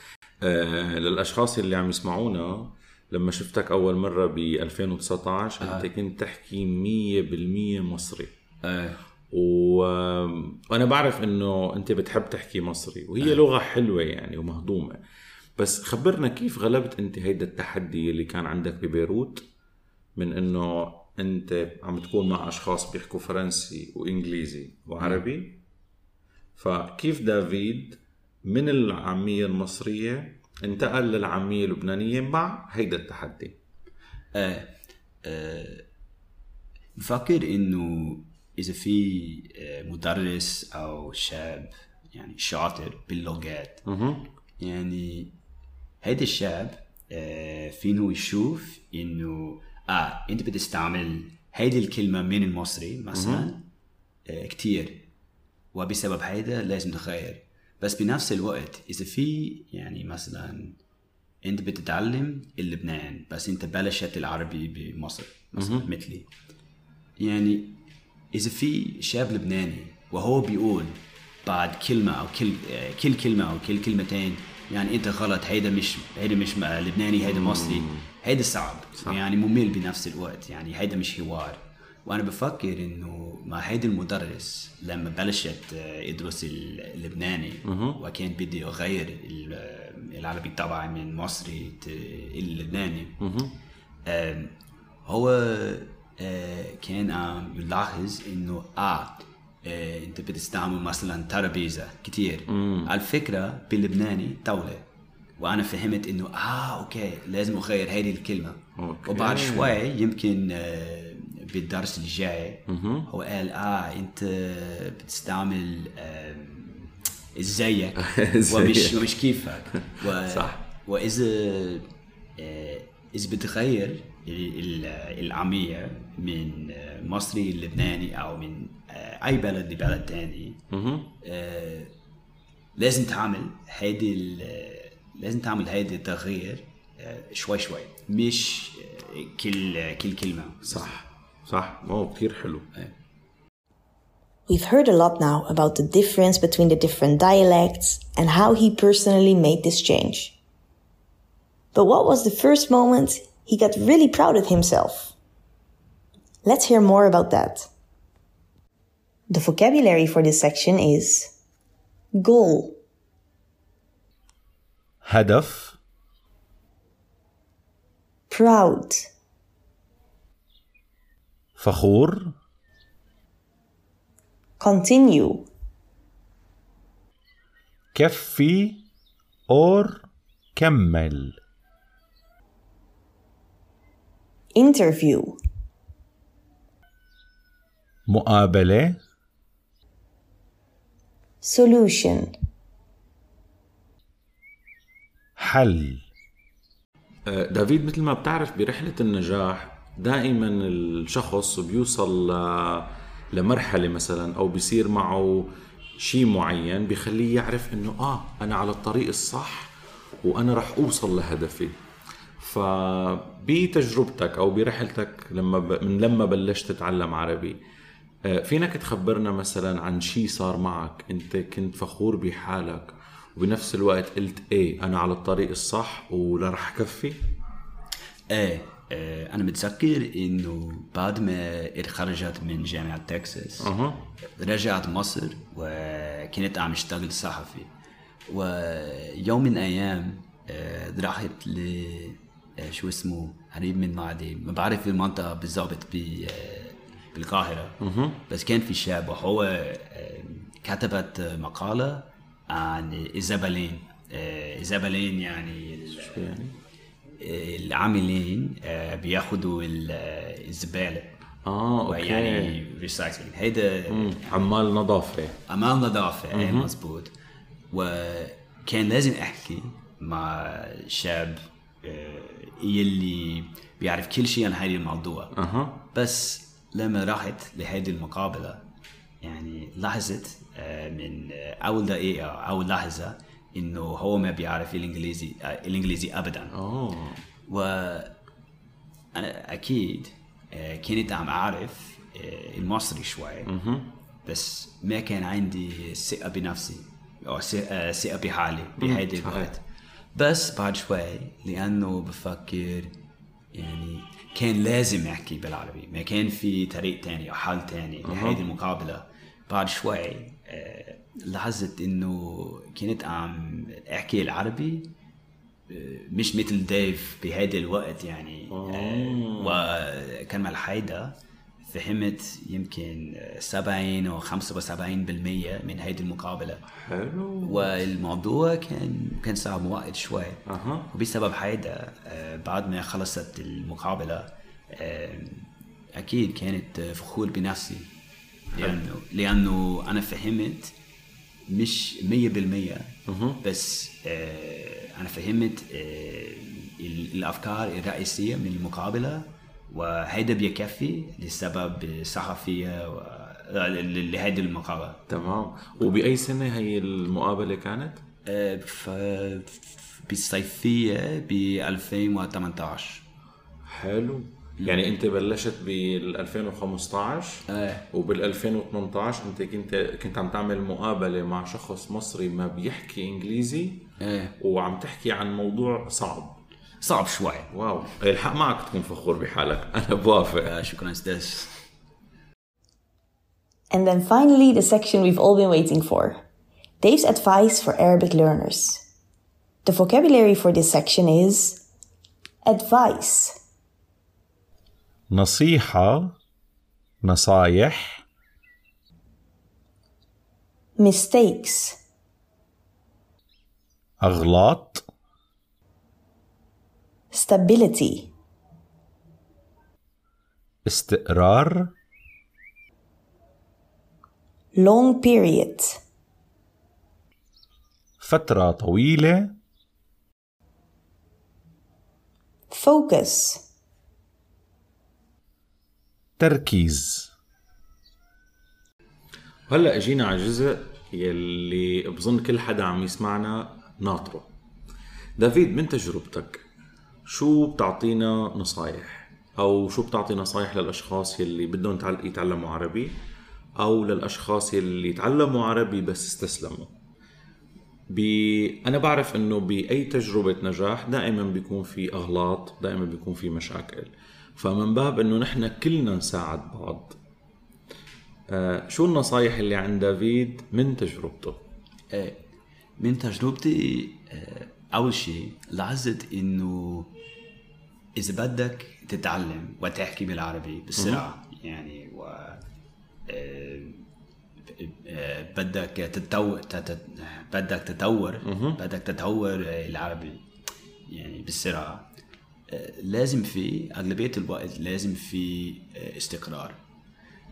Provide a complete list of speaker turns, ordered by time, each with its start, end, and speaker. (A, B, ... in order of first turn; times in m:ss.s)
0:00.4-0:08.3 A
0:05.6-0:05.9 B
0:08.6-0:09.0 B
0:09.3-0:15.0 A
0:15.6-0:19.4 A
0:20.2-0:25.6 A
0:26.6-0:33.6 A
0:34.3-0:35.9 B
0:37.0-0:43.9 B
0:43.9-0:44.3 A
0:44.6-0:45.3 B
0:46.0-0:53.6 B
0:53.1-0:53.5 A
0:54.3-0:55.1 B
0:55.7-1:00.8 B
1:01.4-1:06.3 B
1:05.6-1:05.9 A
1:07.2-1:07.8 B
1:08.3-1:33.2 B
1:17.2-1:18.0 A
1:27.6-1:28.0 A
1:33.2-1:33.6 A
1:34.1-1:44.8 B
1:42.5-1:42.9 A
1:45.4-2:10.6 B
1:48.8-1:49.8 A
1:52.7-1:53.1 A
1:58.0-1:59.1 A
1:59.8-2:00.6 A
2:10.7-2:11.1 A
2:11.2-2:11.9 B
2:12.8-2:21.0 B
2:20.7-2:22.7 A
2:24.5-2:30.4 C
2:31.7-2:35.1 C
2:36.4-2:37.7 C
2:39.3-2:41.3 C
2:42.1-2:42.8 C
2:45.0-2:45.8 A
2:48.3-2:49.1 C
2:51.6-2:52.4 A
2:54.6-2:55.5 C
2:57.9-2:58.8 A
2:59.5-3:01.4 A
3:04.5-3:05.4 C
3:08.1-3:09.0 A
3:11.4-3:12.3 C
3:15.4-3:16.0 A
3:17.3-3:31.8 A
3:32.4-3:37.6 A
3:38.2-3:47.2 A
3:48.3-3:53.7 B
3:53.6-3:54.1 A
3:54.4-3:57.7 B
3:58.3-4:16.4 B
4:07.8-4:08.2 A
4:15.9-4:16.6 A
4:17.2-4:21.1 B
4:21.4-4:22.6 A
4:21.9-4:24.4 B
4:23.9-4:25.4 A
4:25.5-4:27.1 B
4:26.3-4:26.7 A
4:27.7-4:35.3 B
4:35.3-4:35.8 A
4:35.9-4:38.6 B
4:39.2-4:46.6 B
4:46.5-4:47.2 A
4:47.4-4:48.2 B
4:49.1-4:53.5 B
4:53.5-4:53.9 A
4:54.3-5:02.9 B
4:58.8-4:59.5 A
5:03.5-5:14.9 B
5:08.0-5:08.4 A
5:15.7-5:26.6 B
5:18.5-5:19.7 A
5:26.7-5:27.8 A
5:27.4-5:37.9 B
5:30.4-5:30.9 A
5:38.5-5:40.7 B
5:41.5-5:55.0 B
5:43.1-5:43.4 A
5:55.1-5:58.0 A
5:58.3-6:03.0 B
6:03.6-6:13.9 A
6:07.5-6:07.9 B
6:14.0-6:14.3 B
6:14.4-6:16.4 A
6:16.8-6:17.5 B
6:17.5-6:20.6 A
6:20.4-6:21.6 B
6:23.7-6:26.2 C
6:26.8-6:28.8 C
6:29.6-6:31.6 C
6:32.4-6:33.4 C
6:35.1-6:36.2 A
6:37.0-6:38.0 A
6:40.8-6:41.8 C
6:44.0-6:44.9 A
6:47.1-6:48.1 C
6:50.6-6:51.7 A
6:54.6-6:55.8 C
6:58.0-6:59.4 A
7:02.5-7:03.4 C
7:06.2-7:07.1 A
7:09.5-7:14.3 A
7:15.2-7:16.4 A
7:17.1-7:22.9 A
7:23.6-7:26.7 A
7:27.9-7:37.0 A
7:38.3-7:41.4 A
7:41.9-7:42.2 B
7:42.8-7:46.9 B
7:48.0-7:52.4 B
7:50.8-7:51.1 A
7:53.1-7:53.9 B
7:54.5-8:00.3 B
7:58.2-7:58.6 A
8:00.9-8:01.9 B
8:02.5-8:06.6 B